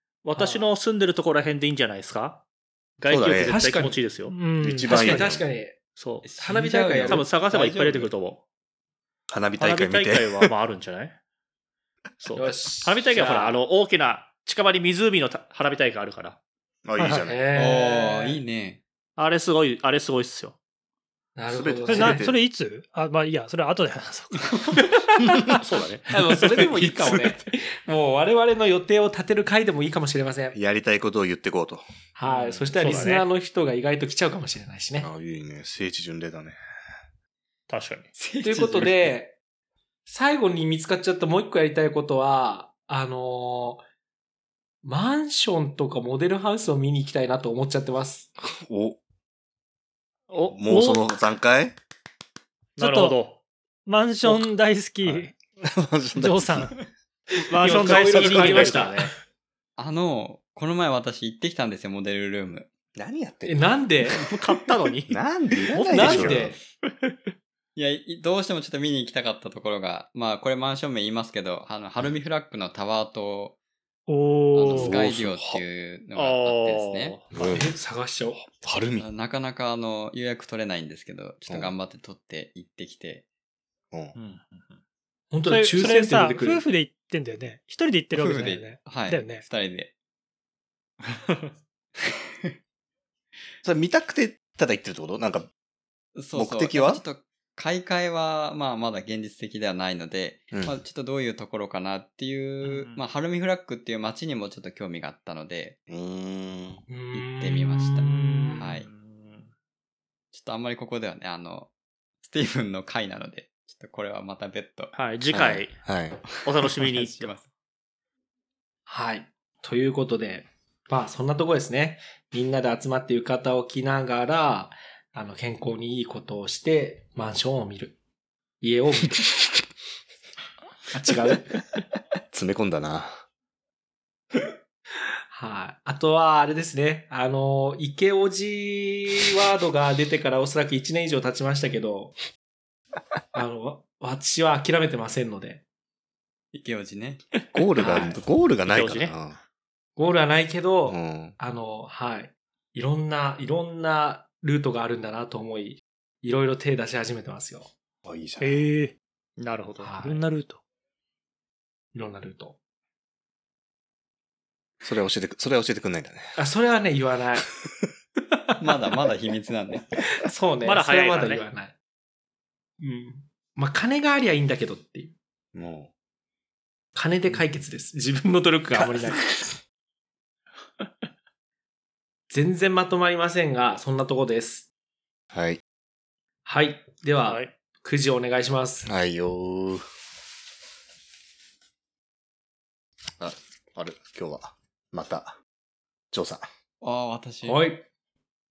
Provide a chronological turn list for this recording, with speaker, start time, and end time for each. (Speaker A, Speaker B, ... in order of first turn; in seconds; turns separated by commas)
Speaker A: 0.2-2.4, Speaker B: 0.4-0.7, Speaker A: 3.0-4.4, Speaker C: 3.1-3.6, Speaker B: 3.5-4.0, Speaker D: 4.3-5.3, Speaker C: 4.6-5.5, Speaker B: 4.9-5.8, Speaker A: 6.0-6.3, Speaker E: 6.2-8.1, Speaker B: 6.4-7.3, Speaker A: 7.1-8.4, Speaker C: 9.3-10.5, Speaker A: 9.6-11.2, Speaker A: 12.2-16.4, Speaker B: 12.3-13.6, Speaker C: 16.9-17.4, Speaker D: 17.0-17.3, Speaker B: 17.2-18.4, Speaker E: 17.5-18.8, Speaker A: 19.2-20.6, Speaker B: 21.4-22.3, Speaker C: 21.5-22.4, Speaker D: 21.9-24.6, Speaker B: 24.8-25.6, Speaker A: 25.6-26.1, Speaker B: 26.1-30.6, Speaker C: 26.8-27.3, Speaker C: 30.5-31.9, Speaker B: 32.2-35.1, Speaker A: 32.2-33.2, Speaker D: 32.8-33.2, Speaker C: 35.0-36.6, Speaker A: 37.7-38.1, Speaker E: 38.2-39.1, Speaker B: 38.4-39.4, Speaker B: 40.1-43.8, Speaker B: 44.8-48.3, Speaker C: 48.4-49.0, Speaker A: 50.3-51.0, Speaker C: 50.5-51.8, Speaker D: 50.7-51.0, Speaker D: 52.8-53.2, Speaker A: 52.8-53.4, Speaker D: 53.9-55.4, Speaker C: 55.6-56.9, Speaker D: 56.2-56.7, Speaker A: 57.5-59.1, Speaker B: 57.5-59.1, Speaker E: 59.8-62.7, Speaker C: 63.0-63.7, Speaker B: 63.5-64.3, Speaker A: 64.2-66.6, Speaker C: 65.1-66.5, Speaker B: 65.9-66.6, Speaker E: 67.8-73.6, Speaker D: 74.1-75.0, Speaker E: 74.5-77.2, Speaker C: 74.6-75.6, Speaker A: 76.2-77.3, Speaker B: 77.3-78.4, Speaker C: 77.3-77.7, Speaker C: 78.4-79.1, Speaker E: 79.0-83.2, Speaker C: 81.5-81.7, Speaker A: 84.2-84.8, Speaker B: 85.3-86.7, Speaker D: 85.5-89.4, Speaker E: 88.1-89.9, Speaker A: 91.0-91.4, Speaker C: 93.6-95.5, Speaker E: 96.2-105.8, Speaker C: 96.3-97.0, Speaker A: 102.6-103.0, Speaker C: 105.9-106.8, Speaker B: 106.9-108.7, Speaker E: 107.1-108.9, Speaker A: 108.0-109.5, Speaker E: 110.3-111.7, Speaker E: 112.2-114.9, Speaker A: 114.9-115.8, Speaker C: 115.3-116.4, Speaker A: 116.4-117.3, Speaker E: 116.8-117.5, Speaker B: 118.9-128.0, Speaker B: 128.6-129.2, Speaker B: 130.9-131.6, Speaker C: 132.3-133.2, Speaker B: 135.3-142.2, Speaker B: 143.3-145.6, Speaker E: 146.5-147.2, Speaker C: 147.5-149.4, Speaker B: 147.8-148.2, Speaker A: 147.8-149.2, Speaker B: 150.0-157.7, Speaker C: 150.9-151.4, Speaker C: 158.1-158.7, Speaker D: 158.4-158.9, Speaker A: 159.4-160.0, Speaker B: 159.8-160.2, Speaker D: 160.0-160.6, Speaker B: 161.9-162.6, Speaker C: 164.8-166.4, Speaker B: 166.4-167.4, Speaker E: 168.6-169.9, Speaker B: 170.2-171.8, Speaker A: 170.6-171.4, Speaker B: 172.8-175.1, Speaker C: 175.6-175.9, Speaker B: 176.9-179.3, Speaker B: 182.3-184.7, Speaker C: 185.3-185.6, Speaker B: 186.4-188.9, Speaker A: 187.2-187.5, Speaker C: 188.8-189.8, Speaker C: 193.2-195.4, Speaker C: 196.1-196.4, Speaker E: 196.8-197.6, Speaker B: 197.4-197.9